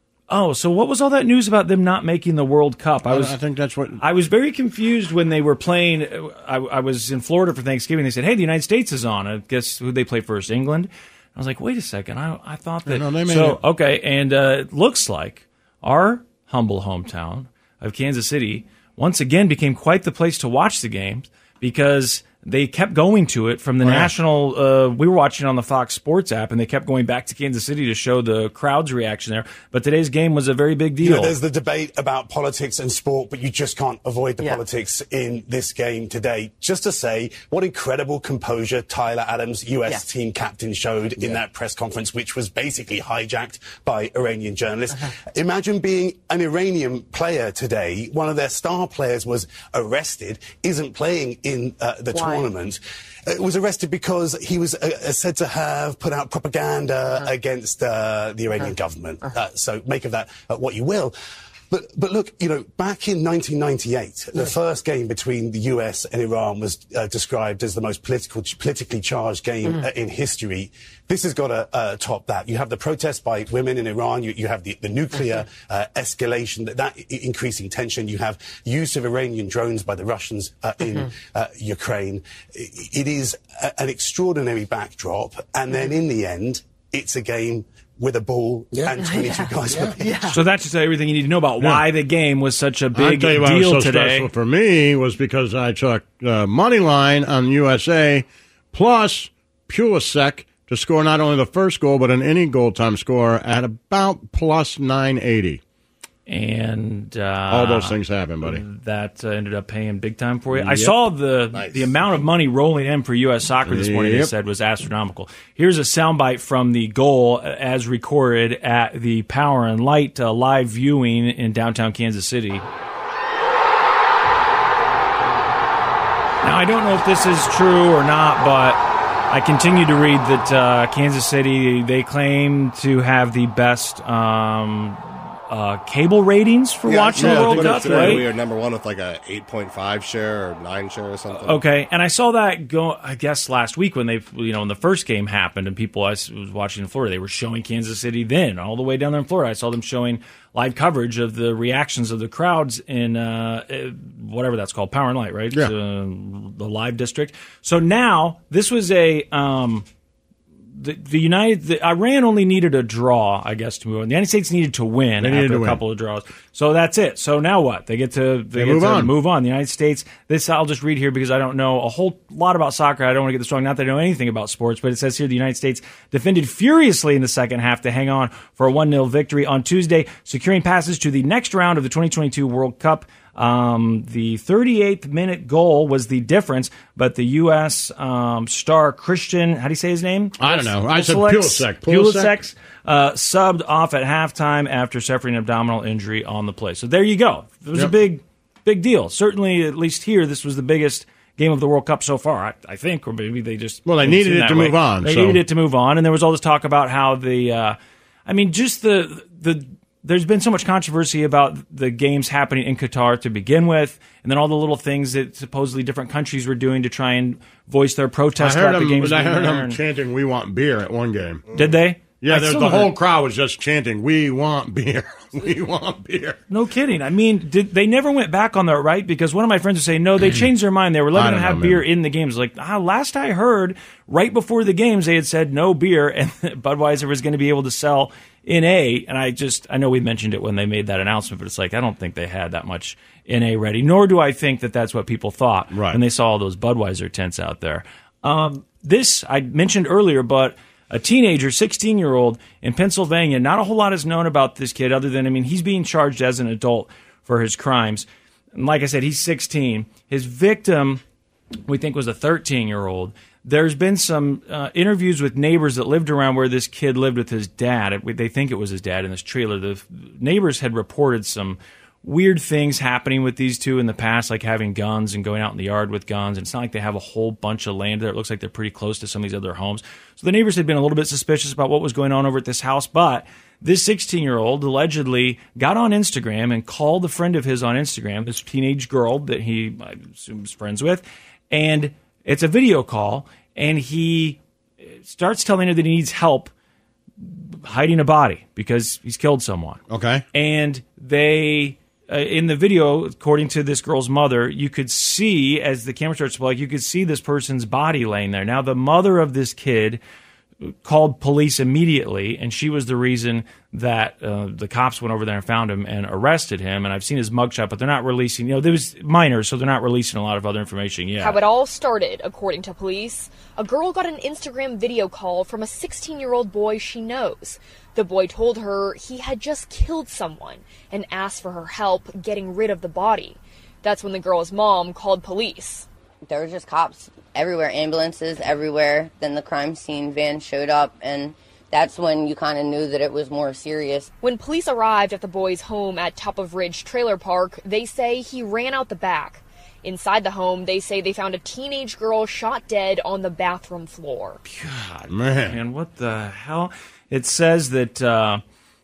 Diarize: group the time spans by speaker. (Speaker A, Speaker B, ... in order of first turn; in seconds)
Speaker A: 0.3-3.4, 4.0-31.4, 90.2-94.3, 106.3-122.7, 126.4-138.3, 141.4-159.8, 160.8-219.8, 221.5-222.9, 226.5-261.0, 261.7-294.4, 295.0-296.5, 297.2-299.8, 300.3-310.0, 310.6-321.4, 354.4-358.4
Speaker B: 3.1-4.0, 12.9-13.6, 23.8-24.1, 91.6-91.9, 92.9-105.6, 107.5-108.6, 110.5-110.9, 113.7-114.3, 137.2-138.3, 165.2-165.8, 168.6-169.1, 190.4-192.3, 203.9-205.4, 218.4-221.5, 222.2-226.4, 231.1-231.8, 245.7-246.0, 299.9-300.2, 355.1-355.6
Speaker C: 31.0-61.1, 61.7-90.3
Speaker D: 111.5-111.9, 136.9-141.6
Speaker E: 321.2-335.9, 344.2-354.4
Speaker F: 336.3-344.1